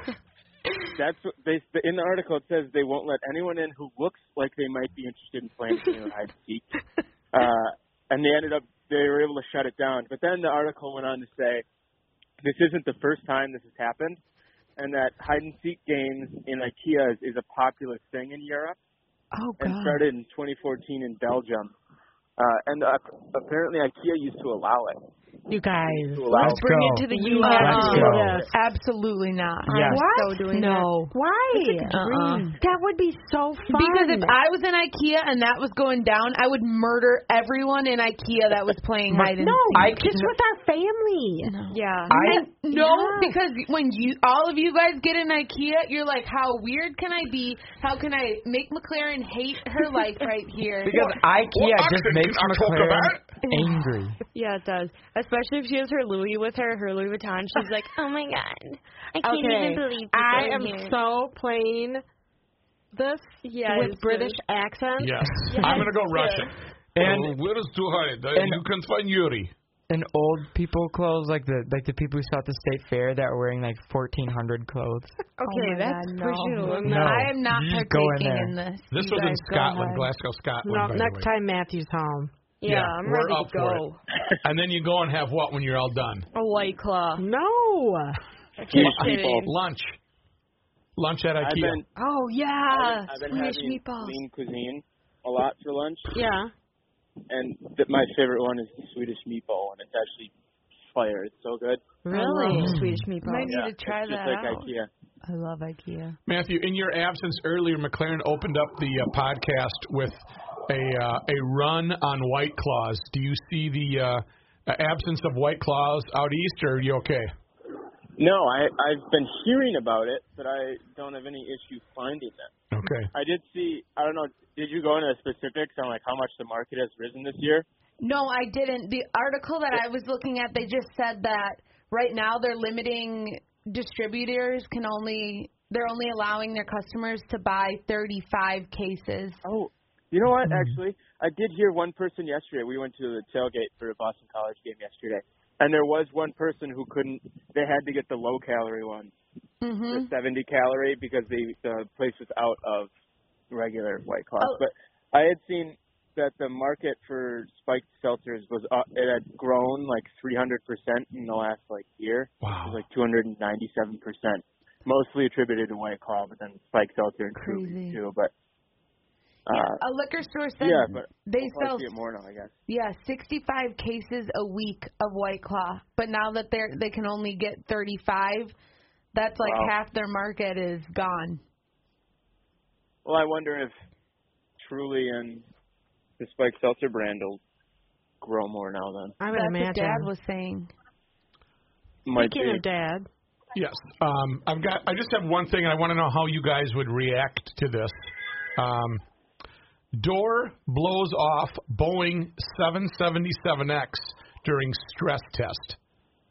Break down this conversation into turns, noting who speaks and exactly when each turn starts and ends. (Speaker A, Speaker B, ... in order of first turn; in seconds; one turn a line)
Speaker A: 0.9-6.7
Speaker A: 7.3-11.7
Speaker A: 12.4-14.2
Speaker A: 14.8-18.8
Speaker B: 19.3-20.0
Speaker A: 19.6-21.7
Speaker A: 22.4-25.1
Speaker C: 25.5-28.5
Speaker A: 25.9-26.6
Speaker D: 26.4-28.4
Speaker E: 26.6-28.2
Speaker B: 27.4-32.5
Speaker E: 29.7-31.0
Speaker D: 29.7-30.0
Speaker C: 29.9-30.3
Speaker C: 31.1-32.0
Speaker E: 31.9-32.6
Speaker C: 32.6-34.4
Speaker B: 33.7-40.0
Speaker D: 39.1-40.4
Speaker C: 39.4-41.6
Speaker B: 41.4-51.2
Speaker E: 41.7-42.2
Speaker D: 42.1-42.5
Speaker C: 42.7-43.4
Speaker D: 50.8-54.2
Speaker F: 51.5-53.3
Speaker B: 53.5-53.8
Speaker E: 54.3-61.0
Speaker C: 59.2-62.0
Speaker C: 62.9-65.8
Speaker E: 63.4-64.4
Speaker F: 65.0-69.5
Speaker E: 65.5-66.5
Speaker D: 67.0-67.4
Speaker D: 68.3-68.6
Speaker D: 69.9-75.2
Speaker E: 75.4-77.1
Speaker B: 75.5-80.1
Speaker C: 75.5-77.2
Speaker D: 76.9-78.6
Speaker F: 78.9-81.3
Speaker C: 80.6-82.3
Speaker E: 82.6-84.0
Speaker F: 82.7-83.8
Speaker F: 84.4-86.3
Speaker E: 86.3-87.2
Speaker C: 87.2-88.2
Speaker E: 88.6-89.5
Speaker A: 88.7-89.5
Speaker F: 88.7-90.0
Speaker F: 91.0-91.8
Speaker A: 91.4-91.9
Speaker E: 92.0-94.2
Speaker A: 92.7-96.3
Speaker C: 96.1-96.5
Speaker A: 97.3-100.3
Speaker A: 100.9-102.0
Speaker C: 102.0-102.8
Speaker E: 102.1-104.7
Speaker B: 102.1-104.6
Speaker F: 102.6-103.1
Speaker A: 103.4-104.9
Speaker B: 105.2-106.2
Speaker F: 106.3-117.3
Speaker A: 118.2-122.5
Speaker F: 122.7-123.1
Speaker A: 123.1-127.7
Speaker B: 128.0-139.4
Speaker A: 139.4-149.1
Speaker D: 140.5-140.8
Speaker B: 149.6-150.1
Speaker A: 149.9-152.9
Speaker A: 153.5-168.3
Speaker F: 162.4-162.8
Speaker B: 167.4-168.0
Speaker A: 169.5-169.8
Speaker B: 169.5-171.9
Speaker A: 170.6-172.5
Speaker B: 172.7-178.5
Speaker B: 179.1-181.4
Speaker A: 179.4-179.7
Speaker A: 183.1-183.7
Speaker A: 184.6-185.4
Speaker A: 186.2-187.4
Speaker A: 188.2-189.2
Speaker C: 189.2-190.1
Speaker B: 189.3-190.7
Speaker A: 192.1-192.6
Speaker C: 192.1-193.1
Speaker F: 193.6-198.0
Speaker F: 198.6-199.0
Speaker F: 199.9-205.8